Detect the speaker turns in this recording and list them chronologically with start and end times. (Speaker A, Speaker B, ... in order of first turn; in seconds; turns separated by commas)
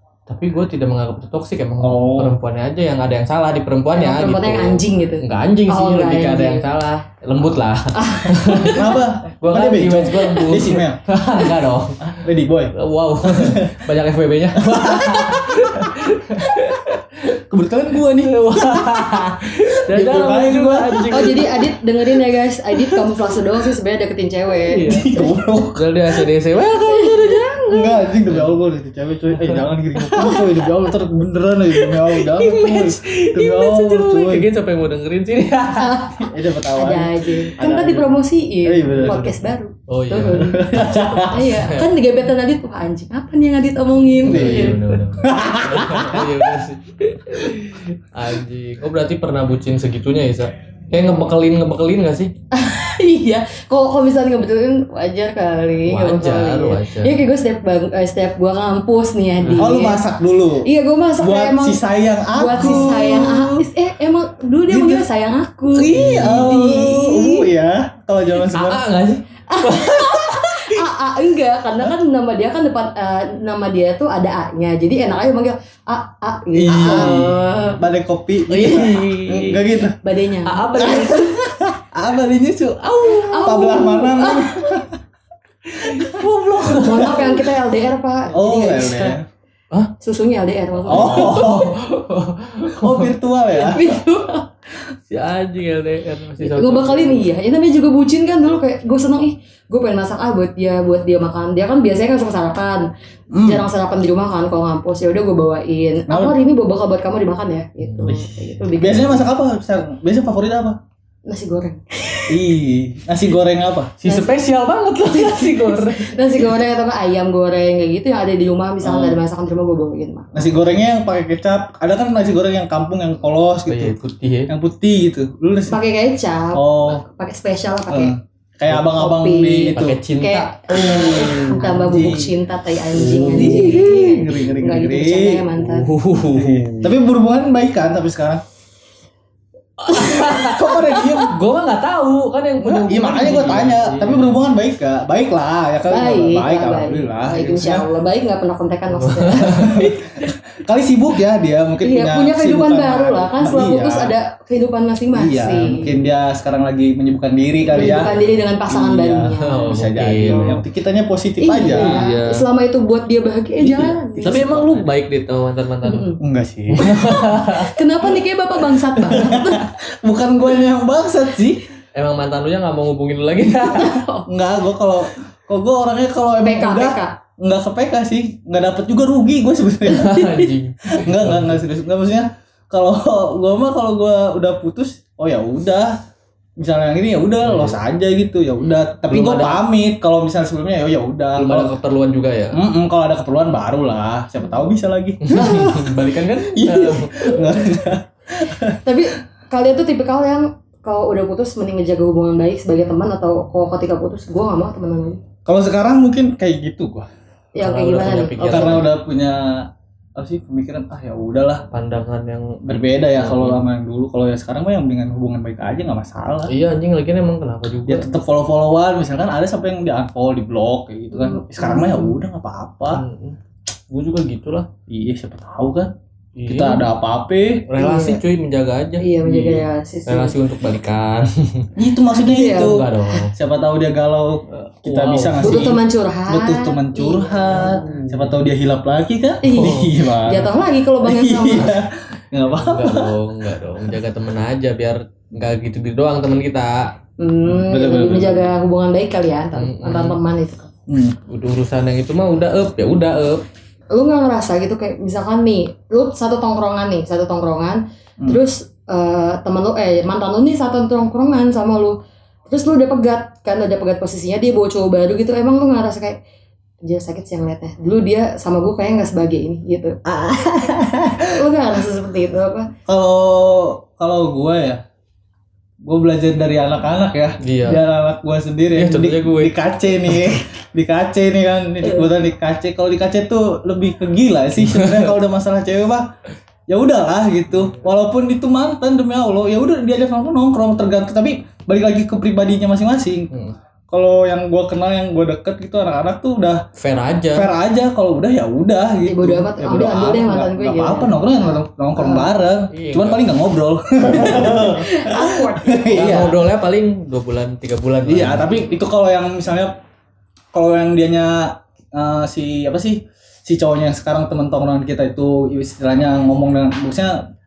Speaker A: 0.3-12.1, Speaker B: 1.8-2.4, Speaker C: 3.9-6.7, Speaker C: 8.0-9.0, Speaker B: 8.6-11.0, Speaker B: 12.0-13.9, Speaker A: 12.7-17.4, Speaker B: 14.6-15.9, Speaker B: 17.5-21.7, Speaker A: 18.2-21.5, Speaker C: 21.1-25.3, Speaker A: 24.7-25.2, Speaker B: 24.9-25.8, Speaker A: 25.7-28.6, Speaker C: 26.9-27.5, Speaker B: 27.7-34.5, Speaker A: 29.3-30.6, Speaker A: 31.8-36.0, Speaker C: 35.8-44.9, Speaker B: 36.2-38.0, Speaker A: 37.6-38.0, Speaker B: 38.6-39.3, Speaker A: 38.9-41.9, Speaker B: 40.3-41.5, Speaker B: 44.2-46.6, Speaker A: 44.2-52.3, Speaker C: 52.5-60.1, Speaker A: 55.9-57.2, Speaker A: 59.4-59.7, Speaker B: 59.5-63.6, Speaker C: 60.6-67.5, Speaker B: 64.7-65.1, Speaker B: 65.7-68.8, Speaker A: 65.9-66.5, Speaker A: 68.5-70.8, Speaker C: 69.5-77.8, Speaker B: 76.6-80.0, Speaker A: 76.7-77.8, Speaker A: 78.5-79.7, Speaker C: 80.0-81.4, Speaker A: 80.5-81.4, Speaker B: 80.8-84.9, Speaker A: 82.8-83.6, Speaker C: 83.1-84.8, Speaker A: 85.7-87.4, Speaker B: 85.9-87.4, Speaker C: 86.7-89.2, Speaker B: 88.3-89.2, Speaker C: 90.0-91.7, Speaker B: 90.9-91.8, Speaker A: 90.9-93.1, Speaker B: 92.7-94.0, Speaker C: 93.5-94.5, Speaker A: 95.1-97.3, Speaker C: 96.4-102.9, Speaker B: 103.3-103.7, Speaker C: 103.4-109.3, Speaker B: 106.1-106.4, Speaker A: 107.8-108.3, Speaker B: 108.1-110.8, Speaker C: 111.3-112.4, Speaker B: 112.3-114.0, Speaker A: 114.0-116.4, Speaker C: 114.0-114.4, Speaker C: 115.0-120.5, Speaker B: 118.8-119.2, Speaker B: 120.3-124.0, Speaker A: 123.7-124.5, Speaker B: 124.5-125.8, Speaker C: 125.7-128.2, Speaker B: 126.5-127.0, Speaker B: 127.9-130.0, Speaker C: 128.7-135.9, Speaker A: 129.7-131.9, Speaker B: 131.8-132.3, Speaker A: 132.9-133.9, Speaker B: 133.2-135.5, Speaker A: 135.6-137.0, Speaker B: 136.3-138.4, Speaker A: 139.8-144.4, Speaker C: 139.9-140.5, Speaker B: 140.4-141.4, Speaker B: 142.6-147.9, Speaker C: 145.9-150.3, Speaker A: 149.0-149.9, Speaker B: 149.5-154.1, Speaker C: 151.8-156.0, Speaker B: 155.1-158.1, Speaker C: 157.7-160.4, Speaker A: 157.8-158.3, Speaker B: 158.7-162.1, Speaker A: 159.4-160.6, Speaker C: 161.4-164.5, Speaker A: 161.6-162.4, Speaker B: 163.6-164.9, Speaker A: 164.2-166.2, Speaker C: 165.8-166.2, Speaker B: 166.2-167.5, Speaker A: 166.7-167.8, Speaker C: 167.4-169.7, Speaker B: 169.0-171.7, Speaker A: 171.9-174.0, Speaker C: 173.7-174.3, Speaker B: 174.3-180.3, Speaker C: 176.4-177.2, Speaker A: 179.9-181.6, Speaker B: 180.9-186.0, Speaker B: 186.6-191.7, Speaker A: 187.4-187.8, Speaker A: 189.1-189.6, Speaker A: 191.4-192.6, Speaker B: 192.5-198.8, Speaker A: 195.2-197.5, Speaker C: 198.8-205.2, Speaker B: 205.5-207.1, Speaker C: 207.6-208.9, Speaker A: 207.6-208.9, Speaker B: 208.5-211.7, Speaker A: 211.7-213.7, Speaker B: 212.7-216.5, Speaker A: 216.5-218.1, Speaker B: 217.9-223.0, Speaker C: 221.1-222.2, Speaker A: 222.9-223.4, Speaker A: 223.9-224.7, Speaker B: 224.9-225.9, Speaker A: 226.4-226.9, Speaker B: 226.5-227.7, Speaker A: 227.7-231.7, Speaker C: 227.8-228.2, Speaker C: 229.0-230.4, Speaker B: 231.8-243.2, Speaker C: 232.3-233.2, Speaker A: 232.3-233.3, Speaker A: 234.5-235.7, Speaker C: 235.4-237.9, Speaker A: 237.6-238.3, Speaker C: 239.4-241.8, Speaker A: 239.5-239.9, Speaker A: 242.4-246.9, Speaker C: 247.2-250.7, Speaker B: 247.4-248.5, Speaker A: 249.6-250.2, Speaker B: 250.9-251.2, Speaker A: 251.3-253.4, Speaker C: 253.9-266.2, Speaker C: 266.8-270.0, Speaker B: 270.1-271.4, Speaker C: 271.3-272.7, Speaker B: 272.9-274.8, Speaker B: 275.8-286.1, Speaker A: 277.4-277.8, Speaker A: 278.8-279.6, Speaker A: 284.6-285.1, Speaker B: 286.7-293.3, Speaker B: 293.9-296.6, Speaker A: 296.8-297.5, Speaker B: 297.3-306.4, Speaker C: 299.1-302.3, Speaker A: 302.7-303.4, Speaker C: 304.1-306.3, Speaker A: 305.9-308.5, Speaker B: 308.1-309.8, Speaker B: 310.5-317.2